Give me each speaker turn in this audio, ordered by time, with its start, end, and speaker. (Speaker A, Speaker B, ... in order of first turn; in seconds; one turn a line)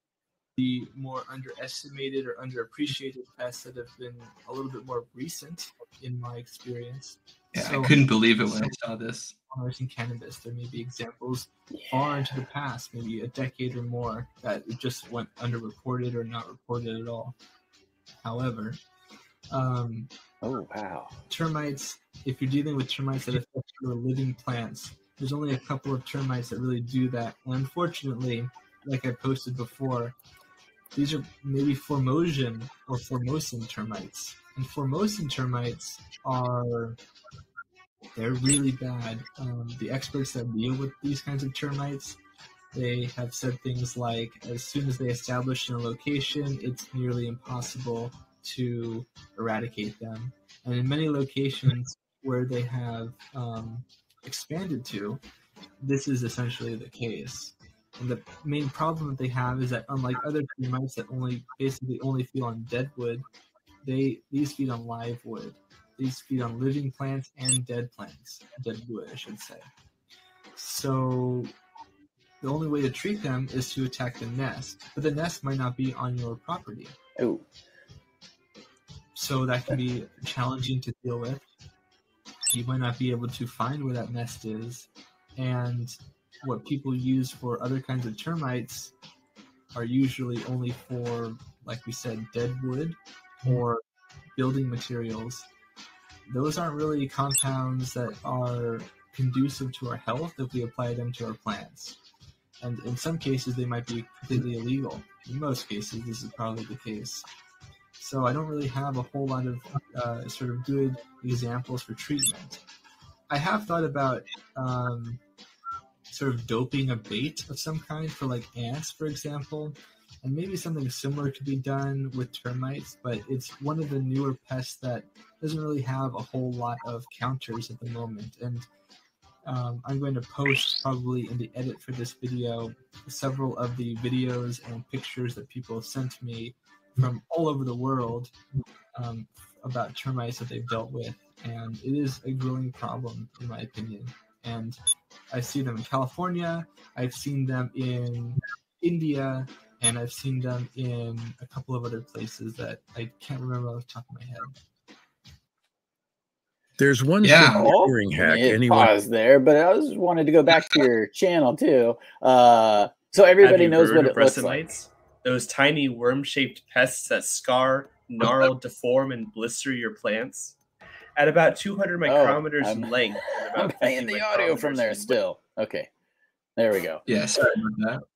Speaker A: 0.6-8.7
Speaker B: 7.5-9.3
Speaker A: 9.5-17.3
Speaker A: 18.2-18.8
Speaker A: 19.5-20.1
Speaker C: 20.4-21.1
Speaker A: 21.3-30.1
Speaker A: 30.9-37.0
Speaker A: 38.1-42.2
Speaker A: 42.7-55.2
Speaker A: 55.8-63.2
Speaker A: 63.8-69.7
Speaker A: 70.5-71.5
Speaker A: 72.4-76.9
Speaker C: 77.2-77.4
Speaker A: 79.1-81.4
Speaker A: 82.5-88.9
Speaker A: 89.7-93.8
Speaker A: 94.3-95.5
Speaker A: 96.3-102.0
Speaker A: 102.6-107.2
Speaker A: 108.0-112.6
Speaker A: 113.3-115.2
Speaker A: 116.1-128.7
Speaker A: 129.4-138.3
Speaker A: 138.9-144.8
Speaker A: 145.3-154.5
Speaker D: 156.8-158.9
Speaker B: 157.2-157.7
Speaker C: 157.6-164.8
Speaker E: 163.4-170.5
Speaker E: 171.2-175.2
Speaker C: 172.0-173.0
Speaker C: 173.5-175.9
Speaker C: 176.6-177.0
Speaker B: 177.1-178.0